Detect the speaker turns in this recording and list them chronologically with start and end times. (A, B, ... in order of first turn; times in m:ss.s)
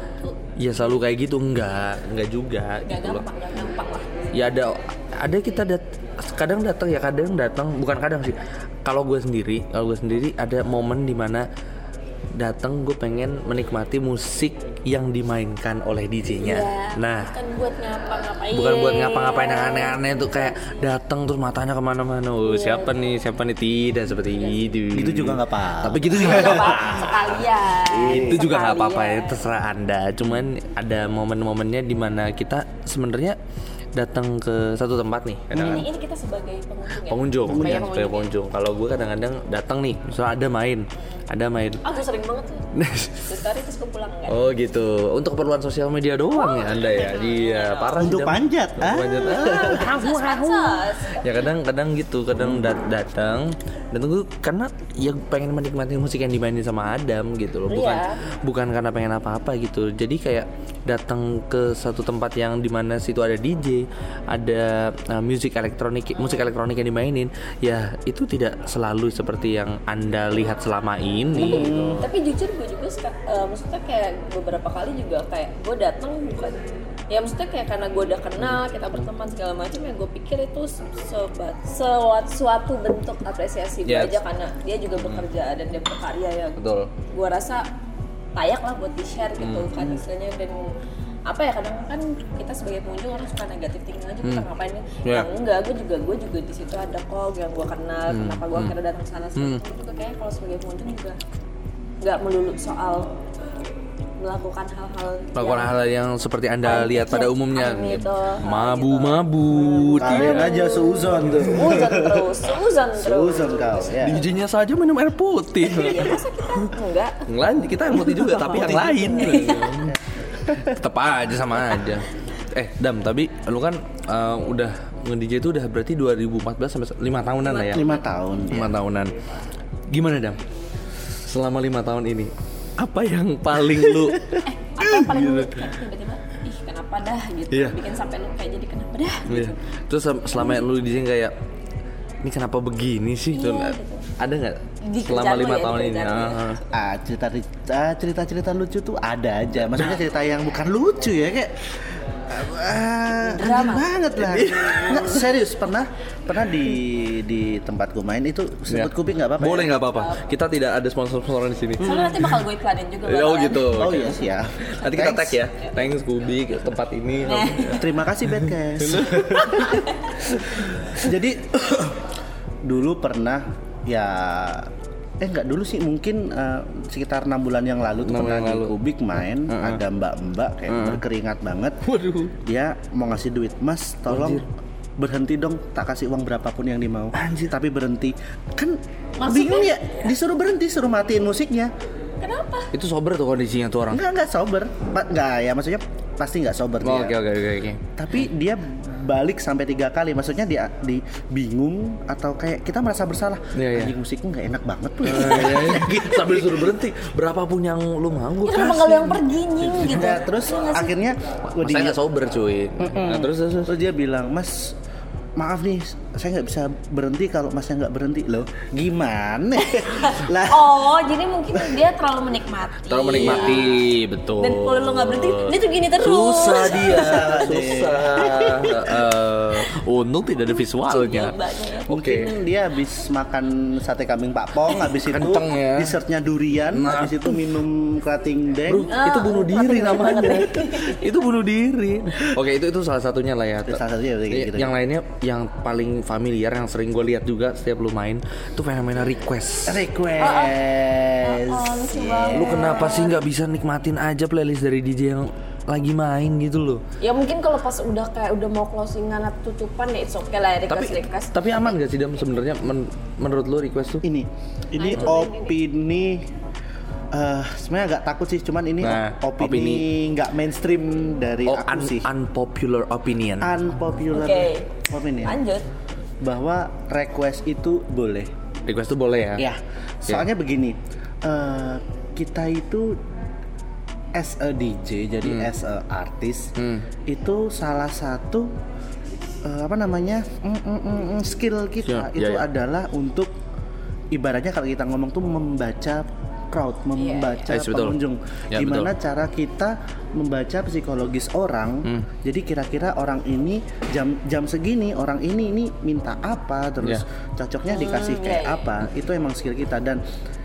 0:00.6-0:03.2 A
0:02.8-0:04.1 B
0:04.3-0:11.4 A
0:12.4-0:17.3 A
0:16.4-0:20.8 B
0:18.5-0:27.4 A
0:22.4-0:22.9 B
0:24.4-0:24.7 B
0:24.9-0:26.8 C
0:26.1-0:29.4 B
0:27.9-0:28.4 C
0:28.0-0:33.4 A
0:34.0-0:35.8 A
0:35.5-0:35.8 C
0:35.5-0:38.3 B
0:37.1-0:41.8 A
0:37.4-0:37.9 C
0:41.8-0:42.7 B
0:42.7-0:43.3 A
0:43.2-0:44.4 B
0:44.3-1:12.0 A
0:46.3-0:48.0 B
0:48.0-0:49.8 C
0:49.2-0:51.3 B
0:57.7-0:58.2 B
1:11.3-1:12.0 C
1:11.4-1:16.6 B
1:17.1-1:26.6 B
1:23.8-1:24.2 A
1:25.0-1:25.2 A
1:26.6-1:26.9 A
1:27.1-1:27.6 B
1:28.4-1:30.7 B
1:29.4-1:29.9 A
1:31.3-1:41.2 B
1:38.1-1:38.7 A
1:42.0-1:43.1 B
1:44.2-1:45.7 B
1:45.3-1:50.5 A
1:46.6-1:49.2 B
1:50.0-1:53.8 B
1:50.0-1:52.3 C
1:53.0-1:54.2 C
1:54.0-1:56.7 A
1:55.6-1:57.2 B
1:57.3-2:00.0 A
1:58.2-1:59.8 B
1:58.3-2:00.8 C
2:00.6-2:07.8 A
2:07.4-2:08.0 B
2:07.7-2:08.8 C
2:08.5-2:09.1 A
2:09.9-2:10.4 A
2:11.2-2:15.6 A
2:14.4-2:19.6 B
2:19.3-2:21.3 A
2:22.2-2:26.6 A
2:23.3-2:24.1 B
2:24.8-2:26.6 B
2:26.7-2:31.5 C
2:32.3-2:39.8 C
2:33.2-2:33.9 B
2:34.2-2:35.2 A
2:38.7-2:42.3 A
2:39.9-2:40.2 B
2:41.8-2:44.0 B
2:43.0-2:50.8 A
2:43.7-2:45.4 C
2:47.2-2:47.8 B
2:47.8-2:49.8 C
2:49.4-2:50.1 B
2:50.6-2:52.1 C
2:52.6-3:01.8 C
2:58.0-2:58.7 A
2:59.5-2:59.8 A
3:00.7-3:01.0 A
3:01.8-3:02.3 A
3:02.4-3:04.4 C
3:04.1-3:04.4 A
3:05.0-3:11.7 C
3:07.1-3:07.5 A
3:09.2-3:10.1 B
3:12.2-3:12.7 B
3:12.7-3:14.0 A
3:13.9-3:17.2 C
3:16.8-3:17.8 A
3:18.0-3:26.7 C
3:23.5-3:23.9 A
3:25.0-3:29.9 A
3:28.4-3:30.9 B
3:29.8-3:32.0 C
3:31.5-3:33.7 A
3:32.8-3:34.8 C
3:35.4-3:40.8 C
3:39.7-3:43.8 B
3:42.9-3:51.4 A
3:44.4-3:47.4 B
3:46.8-3:49.0 C
3:50.9-3:51.9 B
3:51.9-3:52.3 A
3:51.9-3:58.9 C
3:55.1-3:55.9 A
3:56.7-3:57.4 A
3:58.7-4:09.8 A
3:58.9-4:01.1 B
4:03.7-4:04.7 C
4:09.7-4:12.9 C
4:10.2-4:10.6 B
4:11.2-4:13.2 B
4:12.3-4:16.8 A
4:17.0-4:21.7 B
4:20.7-4:24.0 A
4:24.0-4:26.3 C
4:24.8-4:25.6 B
4:27.1-4:32.1 C
4:28.8-4:29.8 A
4:31.4-4:33.6 A
4:33.4-4:35.4 C
4:34.1-4:34.7 B
4:35.2-4:35.6 B
4:36.2-4:38.3 C
4:38.6-4:39.4 A
4:39.4-4:43.0 C
4:44.1-4:46.5 C
4:46.6-4:46.8 A
4:47.0-4:48.5 C
4:49.4-4:53.3 C
4:51.8-4:52.4 A
4:54.1-5:10.0 C
4:57.0-4:57.4 B
4:57.5-4:58.0 A
4:58.5-4:58.9 A
5:07.7-5:08.6 B